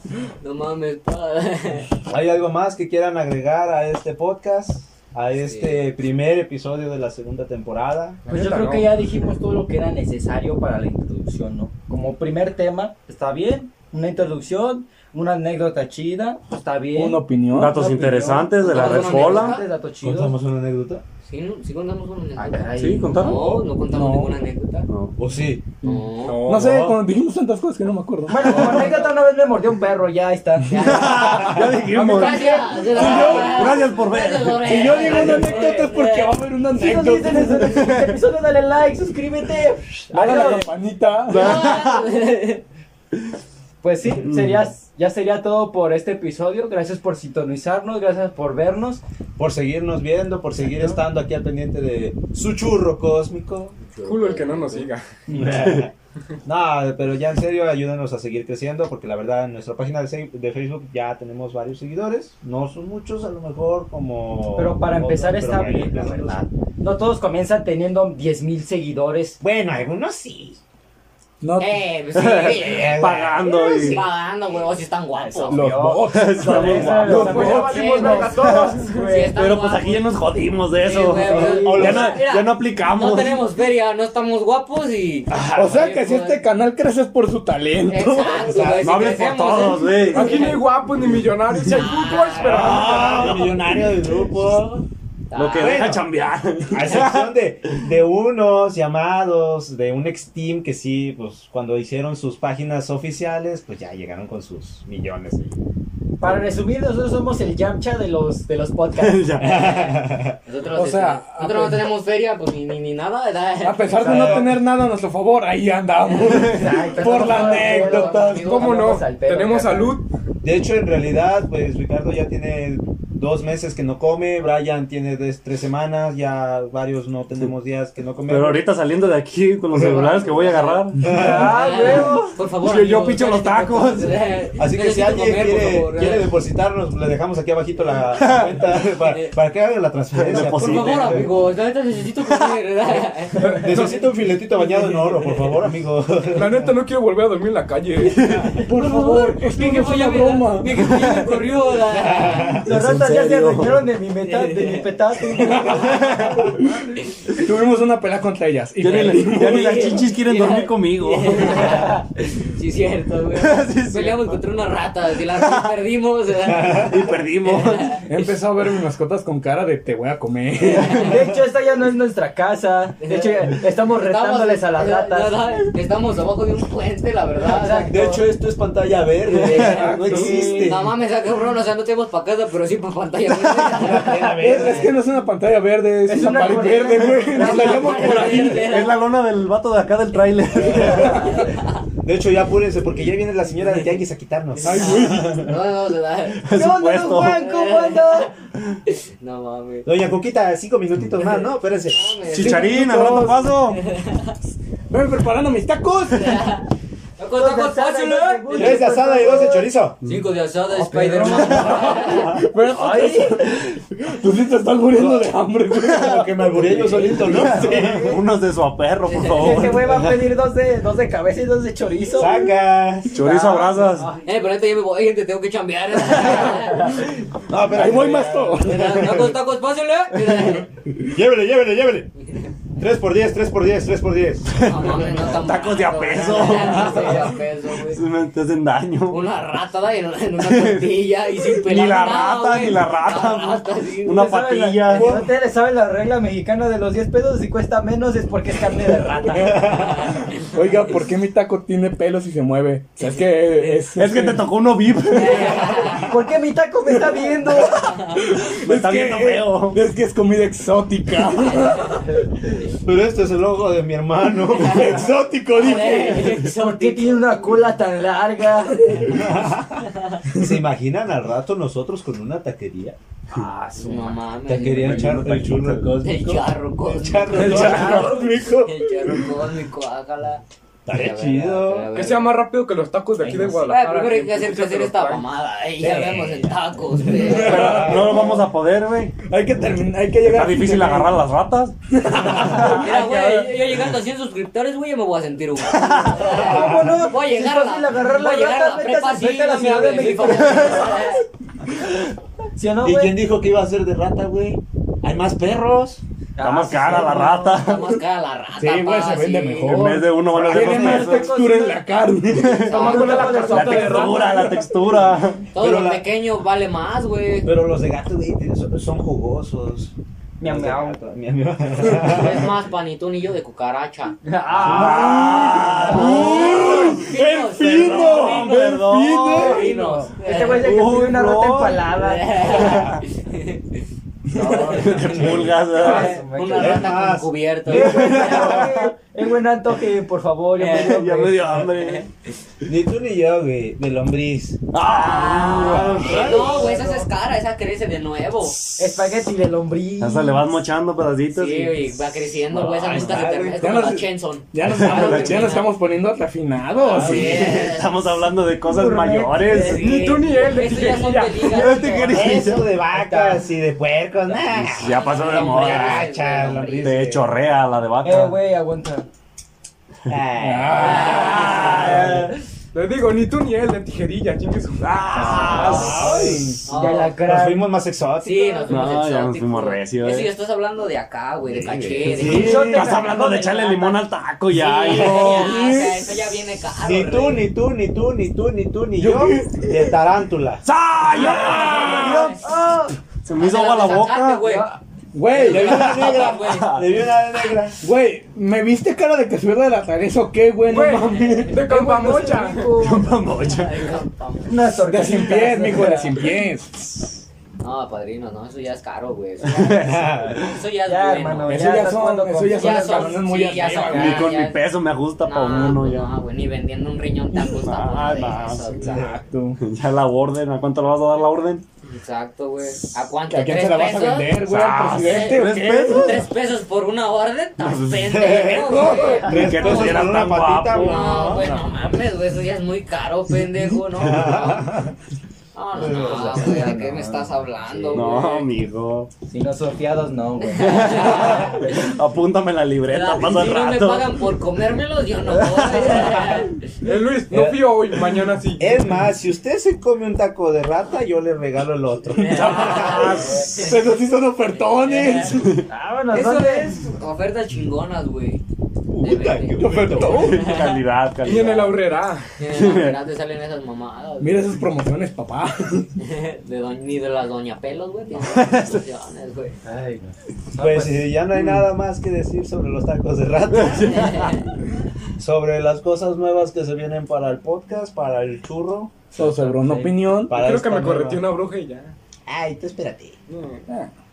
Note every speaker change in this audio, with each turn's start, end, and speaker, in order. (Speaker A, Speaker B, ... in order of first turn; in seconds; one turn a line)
Speaker A: 0.4-1.9
Speaker B: 2.0-8.2
Speaker A: 5.4-5.8
Speaker C: 8.2-8.9
Speaker D: 8.3-20.3
Speaker E: 16.9-17.8
Speaker F: 17.5-19.6
Speaker A: 18.6-19.6
Speaker B: 20.0-21.0
Speaker A: 21.2-24.9
Speaker D: 22.4-23.2
Speaker F: 22.8-23.6
Speaker E: 22.8-24.3
Speaker F: 24.9-25.2
Speaker B: 25.2-25.7
Speaker A: 25.8-26.5
Speaker C: 26.3-26.7
Speaker E: 26.4-28.9
Speaker B: 26.5-26.9
Speaker D: 28.3-33.5
Speaker A: 28.4-29.0
Speaker A: 30.7-36.4
Speaker F: 30.7-35.3
Speaker E: 32.9-33.7
Speaker E: 34.6-38.0
Speaker D: 35.0-35.9
Speaker D: 36.7-40.7
Speaker F: 37.8-38.1
Speaker E: 40.1-41.6
Speaker F: 41.3-42.1
Speaker A: 41.3-42.6
Speaker D: 43.8-49.0
Speaker F: 44.2-44.7
Speaker B: 49.4-53.8
Speaker A: 53.9-54.9
Speaker C: 54.0-55.2
Speaker B: 55.3-55.9
Speaker D: 55.3-55.8
Speaker F: 55.4-55.8
Speaker B: 56.4-66.5
Speaker D: 64.5-69.4
Speaker B: 69.4-70.6
Speaker E: 71.4-71.8
Speaker A: 71.6-75.6
Speaker F: 72.1-74.0
Speaker B: 72.4-73.5
Speaker D: 75.2-79.3
Speaker E: 75.5-77.6
Speaker F: 76.1-77.6
Speaker C: 77.1-79.3
Speaker A: 77.4-80.2
Speaker F: 78.2-83.4
Speaker A: 80.7-86.4
Speaker D: 81.2-82.1
Speaker B: 81.3-82.1
Speaker E: 85.5-88.5
Speaker A: 87.9-90.6
Speaker B: 88.4-89.2
Speaker F: 88.8-90.6
Speaker C: 90.1-93.5
Speaker A: 91.6-93.5
Speaker B: 92.4-94.8
Speaker A: 95.3-96.9
Speaker F: 95.3-97.3
Speaker B: 95.5-96.0
Speaker B: 96.7-105.5
Speaker D: 106.2-109.7
Speaker F: 109.0-109.8
Speaker B: 109.4-110.4
Speaker A: 110.5-114.4
Speaker E: 110.7-111.9
Speaker E: 113.6-118.5
Speaker D: 114.0-114.4
Speaker B: 114.0-114.5
Speaker A: 116.1-118.7
Speaker D: 116.3-120.0
Speaker C: 118.3-120.1
Speaker B: 120.4-128.7
Speaker F: 128.3-131.1
Speaker A: 129.7-130.8
Speaker B: 131.0-131.9
Speaker D: 131.1-132.4
Speaker A: 131.5-136.3
Speaker F: 132.6-134.2
Speaker B: 134.6-141.3
Speaker F: 138.1-138.7
Speaker A: 138.9-139.3
Speaker F: 140.1-141.3
Speaker A: 140.3-143.7
Speaker F: 142.3-142.5
Speaker B: 143.4-146.7
Speaker C: 143.6-144.0
Speaker C: 146.3-148.2
Speaker F: 148.2-148.5
Speaker E: 148.3-151.4
Speaker A: 148.6-152.6
Speaker B: 152.1-152.5
Speaker F: 152.2-153.8
Speaker D: 152.6-156.8
Speaker A: 154.2-154.9
Speaker F: 155.8-156.5
Speaker E: 156.4-156.8
Speaker E: 157.3-160.2
Speaker F: 158.8-161.9
Speaker A: 158.9-168.1
Speaker D: 160.2-160.7
Speaker D: 161.4-162.1
Speaker F: 163.3-164.4
Speaker F: 165.2-165.8
Speaker B: 166.4-167.0
Speaker F: 166.6-168.0
Speaker E: 168.1-171.2
Speaker A: 170.8-171.1
Speaker D: 170.9-175.3
Speaker A: 173.0-178.2
Speaker D: 177.4-177.9
Speaker B: 177.9-180.9
Speaker A: 179.4-184.2
Speaker F: 179.5-179.9
Speaker D: 179.7-180.7
Speaker E: 179.9-180.3
Speaker B: 183.7-184.9
Speaker D: 183.9-184.7
Speaker E: 184.4-188.7
Speaker D: 186.1-188.3
Speaker A: 187.3-189.0
Speaker F: 188.0-191.3
Speaker B: 190.7-191.2
Speaker A: 190.7-191.8
Speaker E: 190.8-191.4
Speaker B: 192.0-195.6
Speaker E: 194.6-195.5
Speaker A: 194.7-196.4
Speaker F: 196.3-197.4
Speaker D: 196.5-198.3
Speaker A: 197.4-198.3
Speaker A: 198.9-199.9
Speaker B: 199.8-202.1
Speaker A: 201.2-202.8
Speaker F: 202.3-203.8
Speaker E: 202.3-203.5
Speaker A: 203.7-204.3
Speaker E: 204.9-206.6
Speaker A: 206.1-206.7
Speaker A: 207.2-209.0
Speaker D: 207.3-209.6
Speaker B: 208.5-210.0
Speaker A: 210.1-212.4
Speaker E: 210.7-216.8
Speaker D: 210.9-213.4
Speaker F: 215.8-216.2
Speaker B: 215.9-218.2
Speaker F: 217.0-219.9
Speaker A: 219.1-219.6
Speaker D: 219.3-222.5
Speaker B: 219.4-220.3
Speaker B: 222.1-223.2
Speaker F: 223.1-224.1
Speaker D: 223.2-224.2
Speaker A: 224.2-227.1
Speaker F: 226.2-226.5
Speaker B: 227.4-229.4
Speaker E: 227.7-229.2
Speaker A: 228.6-230.7
Speaker B: 231.0-232.1
Speaker B: 232.7-234.7
Speaker F: 234.6-239.2
Speaker A: 234.7-238.0
Speaker D: 236.6-237.1
Speaker A: 239.1-244.3
Speaker F: 240.4-245.2
Speaker D: 244.1-250.2
Speaker B: 244.9-245.3
Speaker E: 249.3-254.5
Speaker A: 249.7-250.6
Speaker A: 253.0-253.8
Speaker F: 253.9-256.1
Speaker A: 255.1-256.1
Speaker E: 255.3-256.0
Speaker D: 255.9-258.0
Speaker A: 257.7-258.2
Speaker E: 257.9-262.1
Speaker F: 258.6-259.8
Speaker A: 261.5-261.9
Speaker B: 262.8-265.0
Speaker A: 264.5-267.4
Speaker E: 264.6-266.4
Speaker D: 265.9-269.2
Speaker B: 269.1-273.0
Speaker D: 273.3-274.1
Speaker A: 273.8-275.1
Speaker B: 274.4-278.1
Speaker F: 274.6-275.9
Speaker A: 276.0-282.4
Speaker E: 277.3-279.3
Speaker F: 277.4-278.1
Speaker B: 280.9-282.1
Speaker C: 281.9-285.2
Speaker D: 283.2-283.7
Speaker A: 283.6-287.8
Speaker B: 285.8-288.4
Speaker E: 287.0-288.4
Speaker F: 287.4-289.1
Speaker E: 289.2-291.1
Speaker F: 290.2-291.8
Speaker E: 291.9-292.8
Speaker D: 292.1-293.6
Speaker A: 292.5-301.2
Speaker F: 295.7-296.2
Speaker D: 296.2-301.0
Speaker B: 296.4-296.9
Speaker D: 302.6-303.2
Speaker B: 302.8-306.0
Speaker D: 306.4-307.6
Speaker F: 306.4-308.0
Speaker A: 307.4-309.8
Speaker E: 308.6-314.7
Speaker F: 309.7-311.4
Speaker B: 310.3-311.0
Speaker D: 310.5-311.8
Speaker F: 312.3-315.4
Speaker D: 312.7-314.4
Speaker A: 312.7-313.5
Speaker B: 315.5-316.1
Speaker A: 315.5-317.5
Speaker B: 317.4-322.5
Speaker D: 320.4-321.0
Speaker A: 321.9-324.2
Speaker D: 324.2-325.9
Speaker F: 324.6-329.7
Speaker B: 324.6-325.5
Speaker A: 325.2-328.7
Speaker E: 325.3-329.8
Speaker A: 329.3-330.8
Speaker D: 329.6-332.7
Speaker F: 330.4-331.9
Speaker A: 331.9-333.8
Speaker F: 332.4-333.0
Speaker A: 334.3-338.6
Speaker D: 334.4-336.9
Speaker E: 334.4-334.7
Speaker F: 334.4-336.2
Speaker B: 335.0-335.5
Speaker B: 336.5-338.8
Speaker D: 337.7-341.7
Speaker F: 337.8-338.8
Speaker A: 340.6-341.0
Speaker F: 340.7-342.1
Speaker A: 341.6-342.1
Speaker B: 342.6-344.6
Speaker F: 344.7-346.5
Speaker A: 344.8-348.6
Speaker D: 345.4-347.1
Speaker B: 345.5-346.4
Speaker D: 348.8-350.6
Speaker F: 350.0-351.9
Speaker A: 351.3-355.7
Speaker B: 352.5-353.7
Speaker F: 352.8-353.3
Speaker E: 353.6-357.6
Speaker F: 354.6-355.6
Speaker A: 356.8-358.2
Speaker F: 356.9-360.0
Speaker B: 356.9-357.4
Speaker D: 358.6-359.8
Speaker A: 359.4-362.5
Speaker C: 359.7-361.8
Speaker F: 361.4-362.7
Speaker B: 362.1-367.3
Speaker D: 362.9-363.4
Speaker F: 364.5-366.1
Speaker A: 364.8-366.9
Speaker F: 366.8-368.4
Speaker D: 368.0-369.1
Speaker B: 370.1-372.3
Speaker E: 370.4-372.2
Speaker A: 370.7-371.9
Speaker F: 371.3-372.2
Speaker C: 372.7-375.3
Speaker F: 374.8-376.1
Speaker B: 375.1-376.6
Speaker E: 375.2-376.7
Speaker A: 375.2-375.9
Speaker A: 376.6-377.1
Speaker D: 376.7-377.8
Speaker B: 377.2-379.0
Speaker A: 378.2-382.6
Speaker F: 378.7-380.3
Speaker B: 381.5-382.8
Speaker F: 382.0-385.5
Speaker D: 382.1-384.0
Speaker A: 384.5-387.5
Speaker E: 384.9-386.1
Speaker B: 386.8-390.6
Speaker E: 389.0-389.9
Speaker E: 390.7-392.5
Speaker F: 391.0-392.3
Speaker B: 391.6-392.1
Speaker A: 391.7-392.4
Speaker F: 393.2-394.6
Speaker A: 393.3-394.7
Speaker D: 394.4-394.8
Speaker E: 395.1-396.0
Speaker A: 395.3-396.8
Speaker B: 395.4-397.8
Speaker F: 395.6-396.9
Speaker E: 397.8-401.6
Speaker C: 400.6-402.8
Speaker A: 401.0-401.5
Speaker D: 401.6-403.1
Speaker F: 402.8-404.0
Speaker A: 403.4-404.6
Speaker D: 404.4-406.2
Speaker E: 404.8-406.9
Speaker A: 407.6-411.7
Speaker B: 409.4-410.5
Speaker F: 409.6-410.1
Speaker D: 410.8-414.2
Speaker E: 411.4-414.3
Speaker A: 412.5-414.7
Speaker F: 413.9-416.1
Speaker A: 415.2-419.0
Speaker F: 417.6-418.6
Speaker D: 418.8-419.1
Speaker E: 418.8-419.6
Speaker F: 419.6-421.6
Speaker A: 421.8-424.4
Speaker E: 423.3-426.2
Speaker F: 424.4-426.2
Speaker A: 424.9-430.1
Speaker F: 427.6-428.5
Speaker B: 428.1-431.6
Speaker E: 428.5-429.3
Speaker F: 429.3-431.0
Speaker A: 430.7-434.8
Speaker B: 434.0-434.9
Speaker A: 435.5-438.5
Speaker B: 435.7-436.6
Speaker D: 435.8-438.2
Speaker F: 437.9-439.1
Speaker D: 439.2-441.3
Speaker A: 440.4-441.8
Speaker F: 440.6-444.1
Speaker A: 442.9-446.7
Speaker C: 446.8-448.8
Speaker B: 447.3-447.6
Speaker B: 448.6-453.3
Speaker A: 452.1-453.8
Speaker F: 452.3-453.4
Speaker E: 452.4-455.6
Speaker D: 453.2-453.5
Speaker A: 454.6-455.3
Speaker D: 455.7-456.8
Speaker A: 456.1-458.4
Speaker E: 458.9-460.6
Speaker A: 458.9-460.8
Speaker B: 459.2-459.7
Speaker F: 460.1-461.8
Speaker C: 461.2-462.4
Speaker A: 462.4-464.6
Speaker F: 462.5-463.0
Speaker E: 464.2-465.9
Speaker A: 466.0-469.6
Speaker F: 468.2-468.8
Speaker D: 469.6-471.1
Speaker B: 470.6-474.3
Speaker F: 473.5-474.5
Speaker A: 473.9-474.4
Speaker B: 475.2-479.1
Speaker E: 479.1-480.4
Speaker D: 479.2-480.0
Speaker B: 480.3-481.2
Speaker C: 480.3-481.9
Speaker B: 482.3-483.1
Speaker C: 483.3-483.7